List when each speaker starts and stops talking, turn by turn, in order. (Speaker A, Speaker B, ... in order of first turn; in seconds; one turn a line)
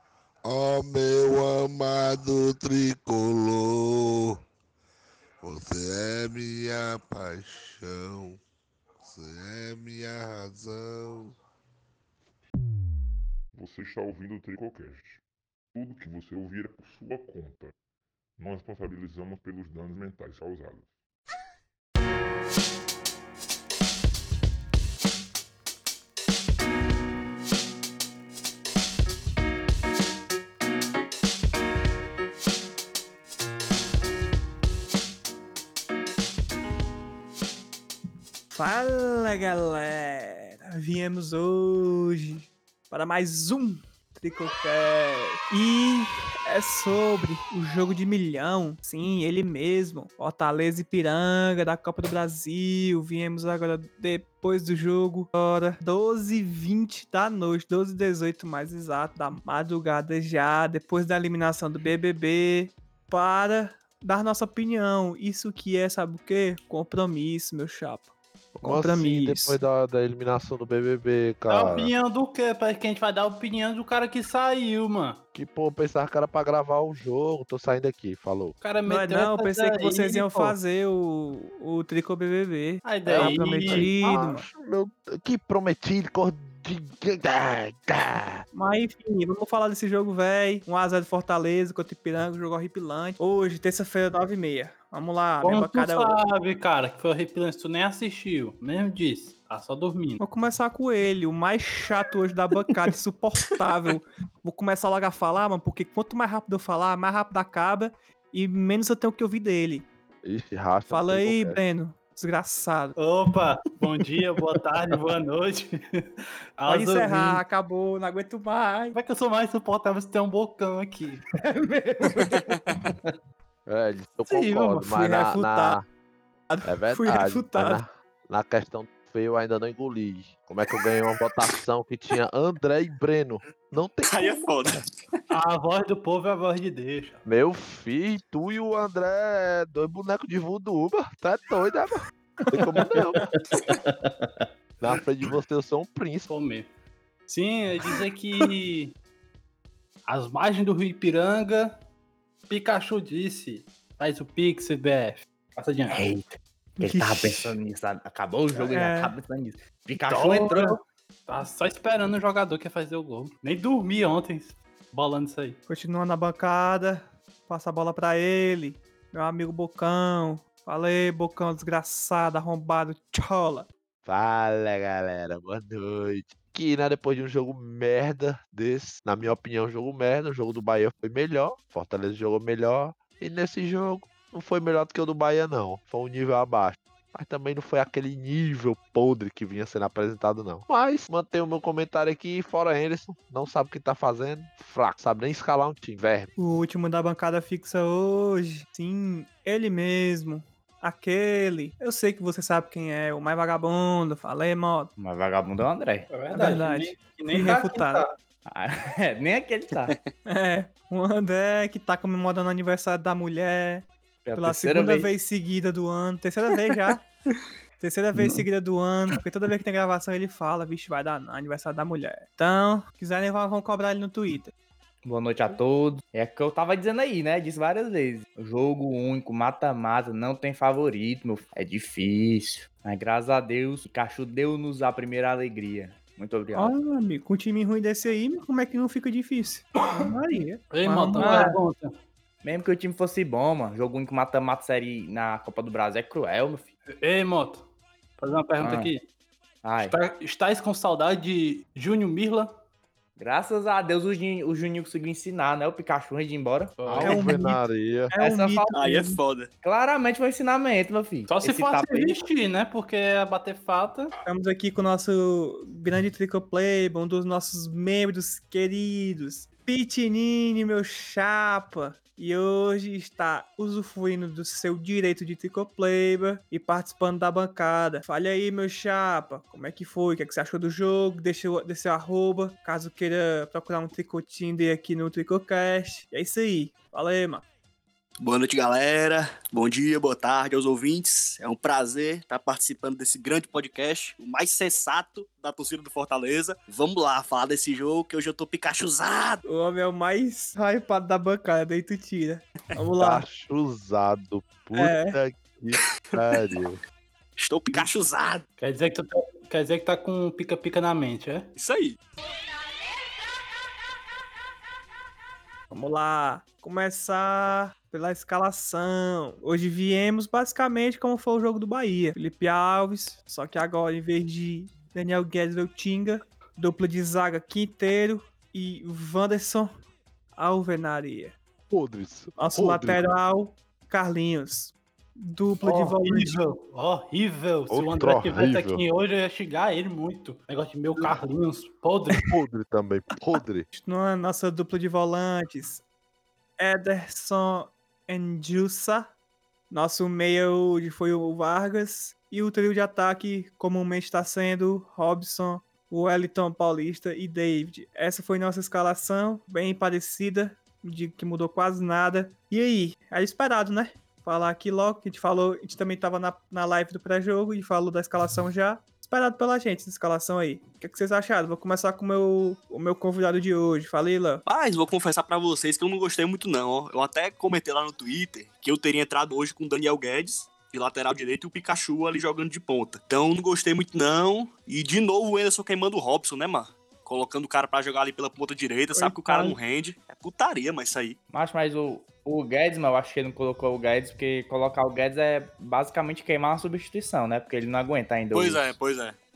Speaker A: 0.4-4.3
Speaker A: 5.4-8.4
Speaker A: 9.0-11.3
Speaker B: 13.5-15.2
Speaker B: 15.7-17.7
Speaker B: 18.4-20.9
Speaker C: 38.5-68.1
Speaker D: 68.6-71.9
Speaker C: 68.6-69.6
Speaker E: 71.5-75.2
Speaker D: 75.3-78.5
Speaker E: 78.6-80.5
Speaker C: 78.8-84.5
Speaker E: 82.8-83.9
Speaker D: 83.1-88.4
Speaker C: 88.5-96.2
Speaker E: 95.4-100.2
Speaker C: 100.2-109.9
Speaker D: 110.2-111.6
Speaker C: 110.9-113.0
Speaker E: 113.0-117.4
Speaker C: 116.7-119.0
Speaker E: 118.9-121.2
Speaker F: 121.4-123.1
Speaker D: 123.7-125.8
Speaker C: 124.5-125.8
Speaker C: 126.5-127.8
Speaker D: 126.6-134.7
Speaker G: 134.1-135.2
Speaker E: 135.3-137.2
Speaker D: 137.2-143.2
Speaker C: 142.5-143.3
Speaker F: 143.7-144.3
Speaker D: 144.8-146.3
Speaker E: 146.3-146.7
Speaker E: 147.3-148.9
Speaker E: 150.1-151.8
Speaker E: 152.5-156.1
Speaker F: 155.9-160.8
Speaker C: 156.8-157.6
Speaker C: 158.5-159.1
Speaker E: 160.1-165.6
Speaker C: 165.7-173.7
Speaker D: 174.0-196.3
Speaker C: 196.4-204.9
Speaker F: 205.0-206.1
Speaker E: 206.1-208.1
Speaker C: 206.3-208.0
Speaker F: 208.5-209.9
Speaker C: 210.2-217.0
Speaker F: 214.2-215.1
Speaker C: 217.8-224.5
Speaker F: 225.0-236.7
Speaker C: 236.5-241.6
Speaker E: 240.7-242.0
Speaker F: 241.2-241.6
Speaker F: 242.4-246.7
Speaker E: 247.0-247.6
Speaker E: 248.2-249.0
Speaker F: 248.6-248.9
Speaker F: 249.6-249.9
Speaker E: 249.8-252.5
Speaker F: 253.2-256.9
Speaker E: 256.8-257.4
Speaker D: 256.9-258.1
Speaker C: 257.0-259.2
Speaker F: 258.1-258.9
Speaker G: 258.7-259.5
Speaker F: 259.6-262.2
Speaker E: 261.3-264.1
Speaker C: 264.2-287.4
Speaker G: 288.2-299.4
Speaker C: 299.4-303.2
Speaker D: 303.0-306.8
Speaker C: 304.7-305.2
Speaker G: 307.4-308.4
Speaker E: 308.6-311.5
Speaker G: 311.6-312.0
Speaker C: 315.7-329.7
Speaker C: 330.4-331.3
Speaker D: 331.7-333.0
Speaker C: 332.4-336.3
Speaker E: 335.6-342.2
Speaker D: 337.7-338.8
Speaker D: 342.3-343.7
Speaker C: 343.7-345.8
Speaker C: 346.6-349.1
Speaker C: 349.7-374.4
Speaker G: 374.5-391.2
Speaker C: 388.9-389.6
Speaker F: 391.3-398.8
Speaker G: 398.3-399.1